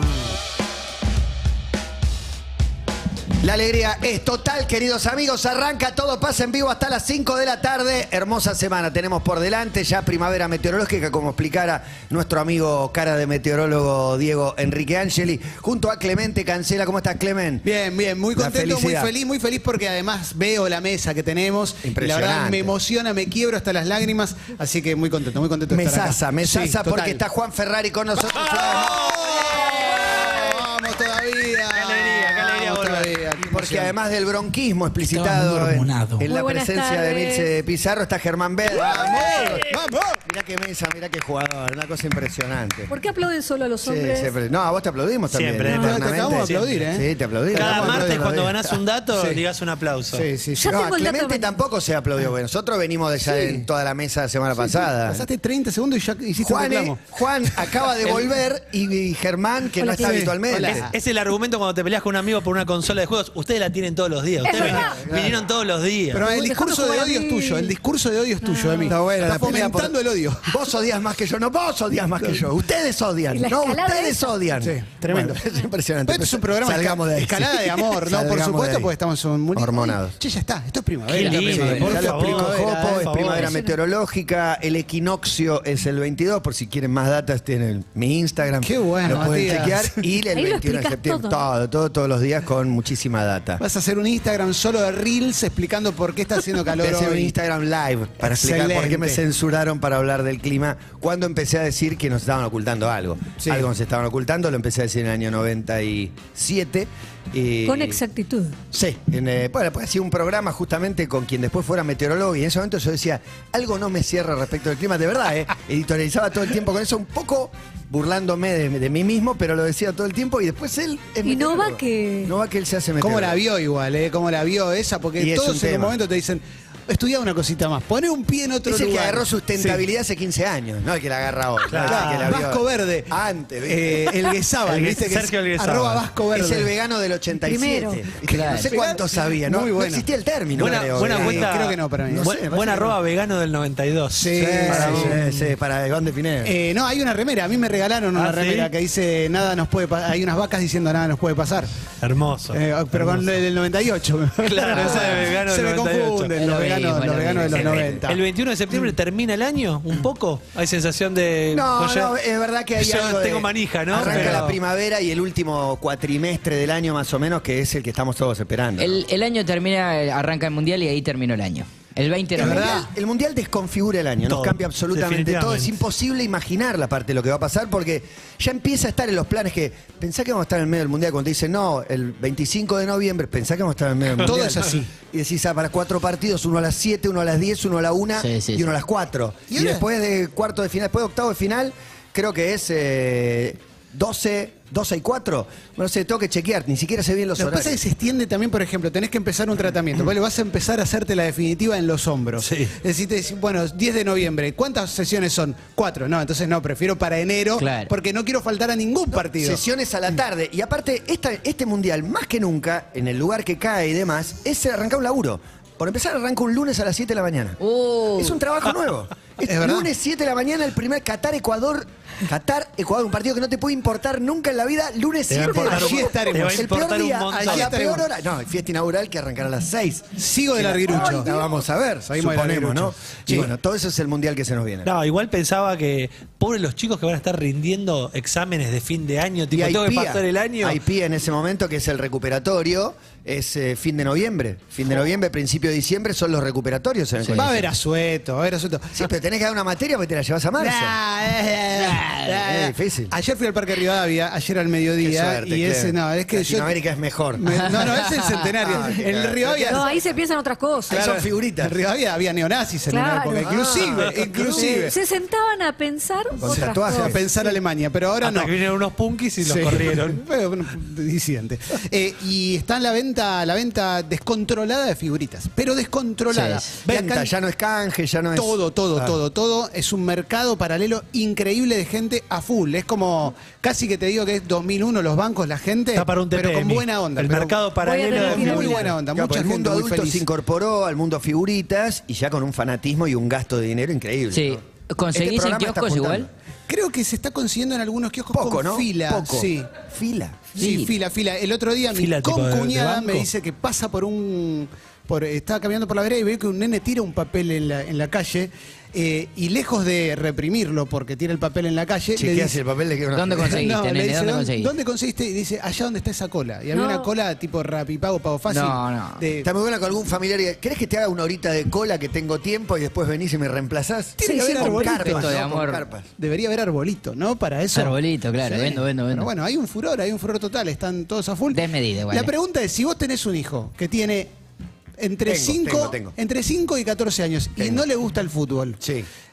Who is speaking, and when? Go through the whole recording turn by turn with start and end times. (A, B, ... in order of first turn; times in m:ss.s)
0:03.4-0:17.6 A
0:17.6-0:27.2 B
0:18.3-0:19.1 A
0:21.8-0:22.7 A
0:25.7-0:29.2 A
0:28.3-0:30.6 C
0:28.6-0:33.9 B
0:31.7-0:33.2 C
0:33.4-0:39.6 A
0:35.3-0:36.2 D
0:36.2-0:37.5 E
0:38.7-0:40.2 B
0:40.2-0:42.9 A
0:42.9-0:44.3 E
0:43.8-0:48.6 A
0:45.3-0:46.9 C
0:45.7-0:48.4 B
0:47.5-0:50.3 C
0:49.1-0:49.4 B
0:50.1-0:50.7 B
0:50.6-0:51.6 E
0:50.6-0:55.3 A
0:53.2-0:53.7 B
0:54.6-0:57.0 B
0:56.4-1:00.9 A
0:57.5-0:58.2 B
0:59.8-1:00.4 E
0:59.9-1:01.0 B
1:00.9-1:06.2 C
1:04.4-1:05.0 E
1:04.6-1:05.5 A
1:06.1-1:10.5 B
1:06.2-1:07.7 E
1:08.4-1:08.9 E
1:08.8-1:18.9 A
1:13.3-1:14.3 E
1:14.6-1:15.4 B
1:16.0-1:23.1 B
1:19.5-1:20.2 A
1:21.1-1:23.5 C
1:21.1-1:21.9 D
1:21.5-1:33.6 A
1:23.2-1:23.8 E
1:28.6-1:30.0 B
1:30.3-1:31.4 E
1:33.6-1:37.3 B
1:36.7-1:48.0 A
1:38.2-1:39.2 B
1:43.4-1:43.7 B
1:47.6-1:48.6 E
1:48.7-2:03.4 A
2:01.2-2:02.3 E
2:03.0-2:09.8 B
2:05.2-2:06.0 A
2:08.6-2:14.3 A
2:11.7-2:12.4 C
2:11.8-2:16.7 B
2:14.6-2:16.0 C
2:16.3-2:23.0 A
2:17.3-2:18.0 E
2:18.2-2:22.3 B
2:18.3-2:18.7 D
2:20.6-2:25.5 C
2:24.1-2:25.2 B
2:24.3-2:26.5 A
2:26.4-2:31.7 B
2:28.1-2:28.7 C
2:32.0-2:33.4 C
2:32.5-2:38.2 B
2:34.4-2:36.3 C
2:36.3-2:37.9 D
2:37.5-2:42.1 C
2:37.7-2:38.0 A
2:41.5-2:49.0 A
2:42.8-2:44.6 C
2:48.8-2:52.8 D
2:52.4-3:17.8 A
2:52.4-2:52.9 B
2:54.3-2:55.7 C
3:04.2-3:04.9 B
3:08.2-3:08.7 D
3:09.5-3:09.8 B
3:17.4-3:29.6 B
3:22.4-3:22.7 C
3:27.6-3:27.9 D
3:29.3-3:37.6 A
3:37.6-3:38.4 D
3:38.1-3:54.9 A
3:39.5-3:39.9 B
3:45.3-3:47.7 C
3:45.4-3:46.6 B
3:47.3-3:48.0 B
3:50.2-3:51.4 B
3:52.1-3:53.5 B
3:54.8-4:00.8 C
3:59.5-4:07.7 A
4:07.3-4:09.1 B
4:08.9-4:11.0 A
4:10.6-4:16.7 B
4:11.8-4:13.1 A
4:15.0-4:18.1 A
4:17.3-4:19.9 B
4:18.6-4:20.1 A
4:19.7-4:21.0 E
4:20.9-4:21.8 A
4:20.9-4:25.0 B
4:22.9-4:23.6 E
4:23.4-4:24.8 A
4:23.9-4:24.5 C
4:24.4-4:27.2 E
4:26.4-4:27.2 A
4:26.4-4:28.5 B
4:28.2-4:30.2 C
4:29.4-4:37.3 B
4:36.3-4:36.8 D
4:36.8-4:38.6 A
4:38.3-4:50.2 B
4:45.9-4:49.0 C
4:47.8-4:48.9 E
4:49.0-4:56.3 A
4:54.3-4:56.3 D
4:56.7-4:59.7 B
4:58.3-5:00.5 A
5:00.5-5:12.6 B
5:00.6-5:00.9 D
5:01.9-5:03.3 C
5:12.1-5:13.6 A
5:13.1-5:14.7 D
5:13.4-5:19.5 B
5:16.7-5:17.1 E
5:18.5-5:19.2 D
5:19.4-5:26.1 A
5:24.2-5:25.4 B
5:24.2-5:24.9 E
5:24.7-5:25.8 D
5:26.2-5:34.3 B
5:27.7-5:29.3 D
5:31.5-5:32.3 D
5:35.0-5:38.8 B
5:35.2-5:36.1 A
5:37.6-5:37.8 A
5:38.8-5:39.1 A